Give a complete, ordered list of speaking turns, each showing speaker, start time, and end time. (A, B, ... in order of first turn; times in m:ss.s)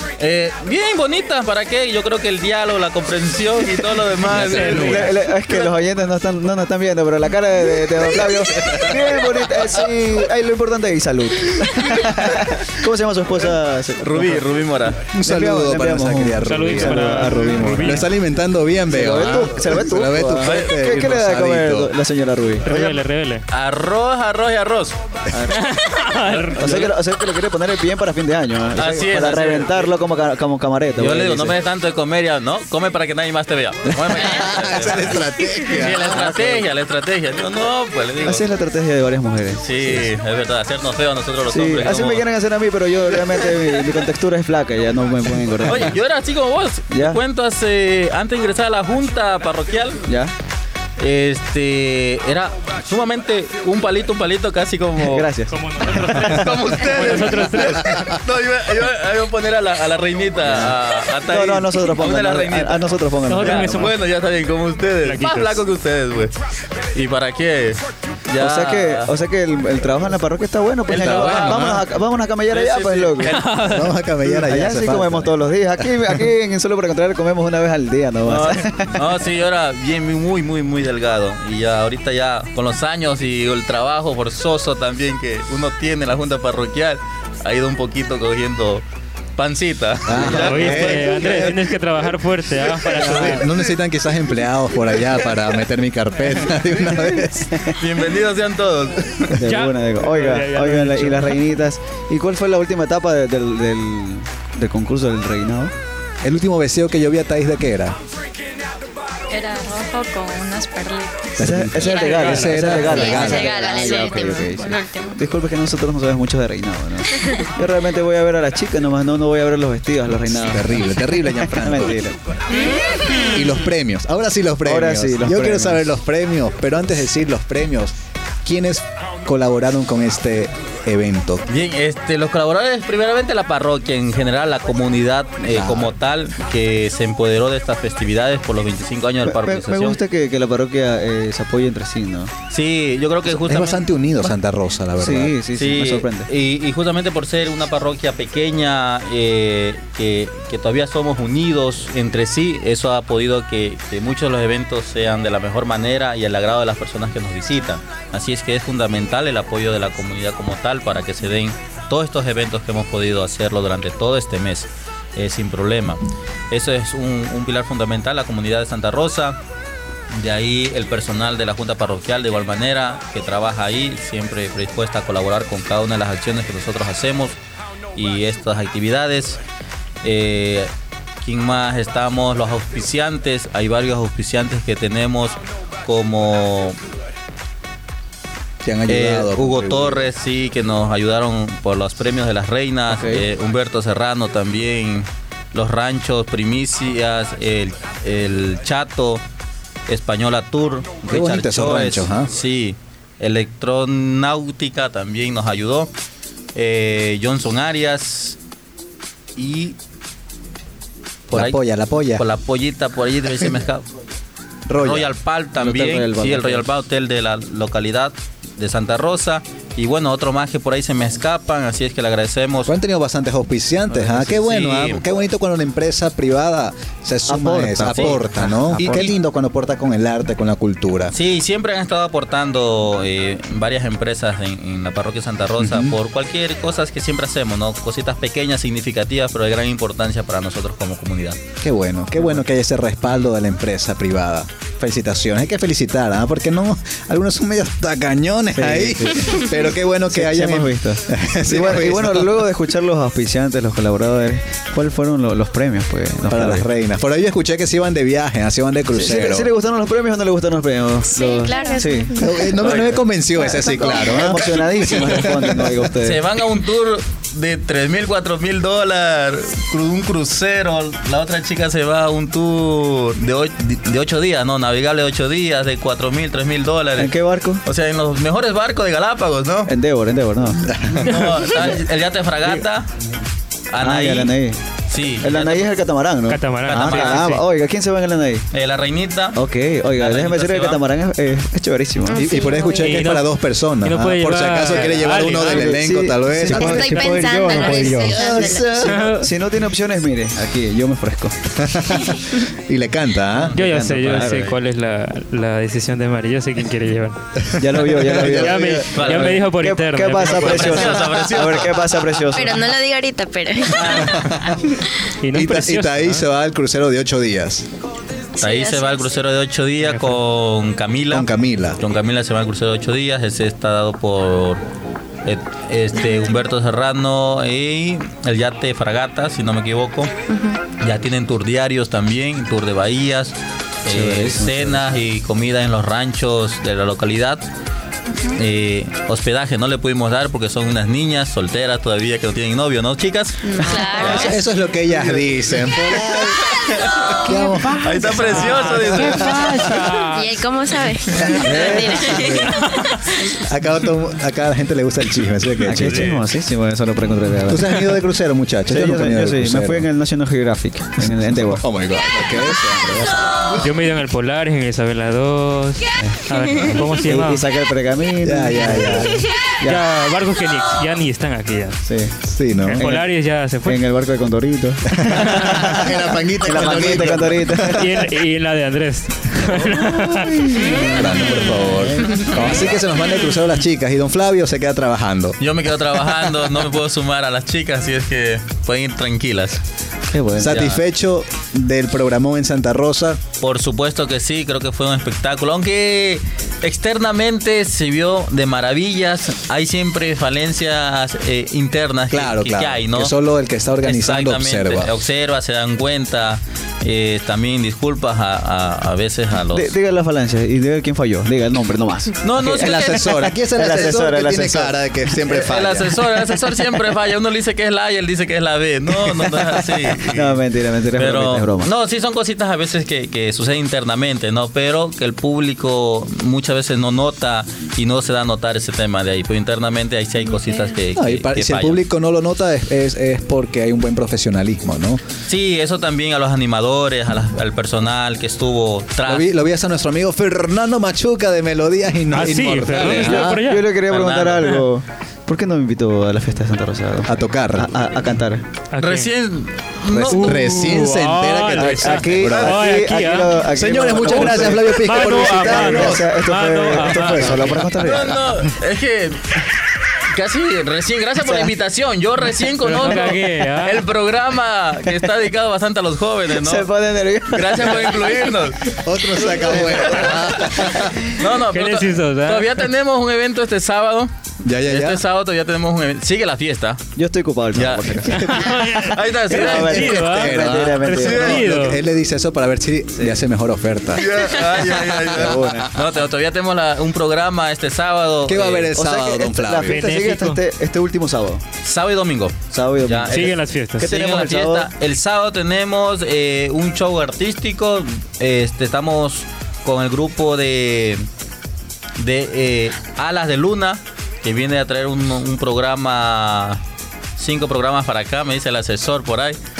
0:00.2-0:05.1 A
0:04.3-0:05.0 B
0:04.4-0:05.1 C
0:04.7-0:14.5 D
0:08.2-0:09.0 B
0:14.0-0:15.0 A
0:15.1-0:21.9 B
0:15.2-0:18.0 D
0:16.4-0:18.1 C
0:18.9-0:22.7 D
0:20.4-0:20.7 A
0:22.6-0:23.4 C
0:22.6-0:25.0 A
0:25.3-0:25.7 D
0:25.5-0:26.9 C
0:26.2-0:26.9 A
0:26.6-0:31.6 D
0:28.7-0:29.9 A
0:31.0-0:38.4 A
0:34.2-0:36.2 B
0:36.1-0:36.6 D
0:38.2-0:40.0 D
0:39.6-0:42.2 A
0:41.5-0:46.0 D
0:45.6-0:50.0 A
0:46.9-0:47.2 D
0:50.1-0:50.3 D
0:51.0-0:55.3 A
0:55.0-0:55.6 D
0:55.5-0:58.0 C
0:56.0-1:06.3 A
1:00.4-1:00.7 D
1:01.3-1:03.9 D
1:03.3-1:04.0 C
1:05.0-1:05.6 C
1:06.9-1:09.1 A
1:08.4-1:13.4 D
1:10.9-1:11.7 A
1:11.0-1:11.8 B
1:12.5-1:13.8 A
1:13.6-1:15.3 B
1:14.3-1:19.1 D
1:18.2-1:28.8 A
1:29.4-1:31.5 A
1:30.1-1:31.6 B
1:30.3-1:33.5 C
1:32.9-1:37.6 B
1:37.5-1:37.8 D
1:37.7-1:39.4 A
1:39.3-1:45.7 D
1:39.4-1:41.4 C
1:46.2-1:48.0 B
1:49.3-1:55.2 E
1:51.4-1:53.5 B
1:51.4-2:02.2 D
1:53.4-1:54.4 F
2:00.3-2:02.0 B
2:02.5-2:03.2 E
2:03.3-2:07.9 B
2:04.6-2:05.8 D
2:08.4-2:11.4 B
2:11.5-2:20.0 A
2:15.5-2:15.9 B
2:19.2-2:22.3 D
2:22.5-2:23.8 A
2:23.3-2:25.3 B
2:25.0-2:26.3 D
2:25.5-2:49.4 A
2:50.1-2:57.4 A
2:57.9-2:59.4 A
3:00.0-3:06.8 A
3:08.6-3:10.1 B
3:08.9-3:19.2 A
3:12.9-3:13.2 D
3:19.9-3:25.9 A
3:21.1-3:22.3 B
3:26.5-3:28.4 A
3:29.4-3:29.8 A
3:31.3-3:33.8 A
3:31.3-3:32.2 B
3:34.7-3:35.1 B
3:34.8-3:42.7 A
3:35.6-3:36.6 D
3:42.6-3:51.1 B
3:43.9-3:44.2 D
3:44.2-3:45.0 A
3:47.3-3:49.1 D
3:47.9-3:48.2 A
3:51.1-4:01.4 A
3:55.6-3:56.0 B
4:01.6-4:12.4 B
4:08.5-4:09.5 D
4:10.1-4:16.6 D
4:16.3-4:19.5 B
4:18.9-4:22.8 D
4:21.1-4:22.5 F
4:21.5-4:21.8 E
4:22.2-4:25.7 B
4:22.6-4:23.0 A
4:23.4-4:26.2 D
4:23.4-4:23.9 F
4:26.0-4:37.1 A
4:37.0-4:37.6 D
4:37.6-4:39.7 A
4:39.7-4:41.0 D
4:40.7-4:41.0 B
4:40.9-4:42.9 A
4:43.7-4:44.3 A
4:43.8-4:48.5 D
4:44.9-4:45.8 A
4:46.3-4:47.4 C
4:46.6-4:47.4 A
4:48.5-4:49.4 A
4:49.3-4:52.2 D
4:49.9-4:50.8 A
4:52.1-4:53.1 F
4:52.1-4:58.5 B
4:52.8-4:55.8 C
4:54.7-4:55.2 A
4:55.4-5:01.4 D
4:56.4-4:58.9 F
4:58.8-4:59.3 C
5:01.6-5:03.6 B
5:03.4-5:04.6 A
5:03.5-5:04.5 D
5:03.5-5:07.2 C
5:07.6-5:12.6 D
5:07.8-5:11.0 C
5:08.6-5:09.4 A
5:10.2-5:12.0 A
5:12.3-5:14.9 F
5:13.8-5:14.6 B
5:15.2-5:16.2 C
5:15.3-5:17.6 B
5:18.4-5:18.9 F
5:18.4-5:24.6 A
5:19.8-5:20.2 C
5:21.1-5:21.8 B
5:25.2-5:30.1 A
5:26.0-5:26.3 F
5:30.3-5:30.6 F
5:30.8-5:37.4 A
5:33.9-5:35.0 D
5:38.3-5:47.2 A
5:43.4-5:44.4 F
5:43.9-5:49.8 B
5:47.3-5:50.3 C
5:47.8-5:49.7 A
5:50.0-5:53.4 F
5:51.1-5:52.6 B
5:51.4-5:51.8 D
5:52.6-5:52.9 C
5:53.3-5:56.1 B
5:55.6-5:57.9 D
5:55.8-5:56.2 A
5:57.5-5:59.8 B
5:58.7-6:01.6 D
6:01.0-6:03.6 B
6:03.6-6:07.4 C
6:06.0-6:09.8 D
6:08.2-6:09.2 B
6:09.6-6:11.8 C
6:11.8-6:12.2 D
6:12.2-6:12.8 B
6:12.6-6:13.8 C
6:12.8-6:13.1 D
6:13.6-6:17.9 D
6:14.9-6:17.8 B
6:17.7-6:21.5 C
6:19.4-6:20.7 D
6:20.8-6:25.4 B
6:25.4-6:29.6 A
6:30.1-6:30.7 D
6:30.4-6:33.2 B
6:30.5-6:30.8 A
6:33.4-6:43.1 A
6:42.1-6:44.9 B
6:43.8-6:49.7 A
6:49.5-6:52.2 D
6:52.2-6:53.3 A
6:52.4-6:56.0 B
6:53.6-6:54.7 D
6:55.2-7:00.4 A
7:00.0-7:01.7 D
7:01.0-7:11.8 A
7:10.9-7:15.0 B
7:15.3-7:19.2 A
7:19.0-7:23.4 B
7:22.1-7:23.7 C
7:22.7-7:28.4 D
7:23.9-7:24.6 A
7:27.1-7:27.7 B
7:28.7-7:29.1 C
7:28.8-7:30.4 A
7:29.9-7:30.4 D
7:29.9-7:33.4 C
7:30.1-7:32.6 B
7:31.6-7:38.3 D
7:33.5-7:36.1 B
7:34.1-7:37.7 C
7:37.0-7:37.6 B
7:37.7-7:39.4 A
7:40.0-7:46.7 A
7:41.2-7:41.5 D
7:42.6-7:43.8 C
7:46.4-7:48.2 D
7:47.3-7:50.5 A
7:48.8-7:51.0 B
7:49.3-7:50.2 D
7:51.1-7:54.1 A
7:51.5-7:52.6 C
7:54.4-7:55.0 B
7:54.6-7:56.8 A
7:57.0-8:01.7 D
7:57.5-7:58.4 A
7:58.1-8:01.8 C
7:58.9-7:59.9 A
7:59.3-8:04.1 B
8:01.0-8:01.5 A
8:03.9-8:08.7 A
8:05.0-8:05.7 D
8:08.3-8:09.8 B
8:08.7-8:11.4 D
8:09.7-8:10.4 C
8:11.6-8:21.0 A
8:12.5-8:14.7 D
8:13.1-8:13.9 C
8:22.0-8:26.6 A
8:27.2-8:29.4 A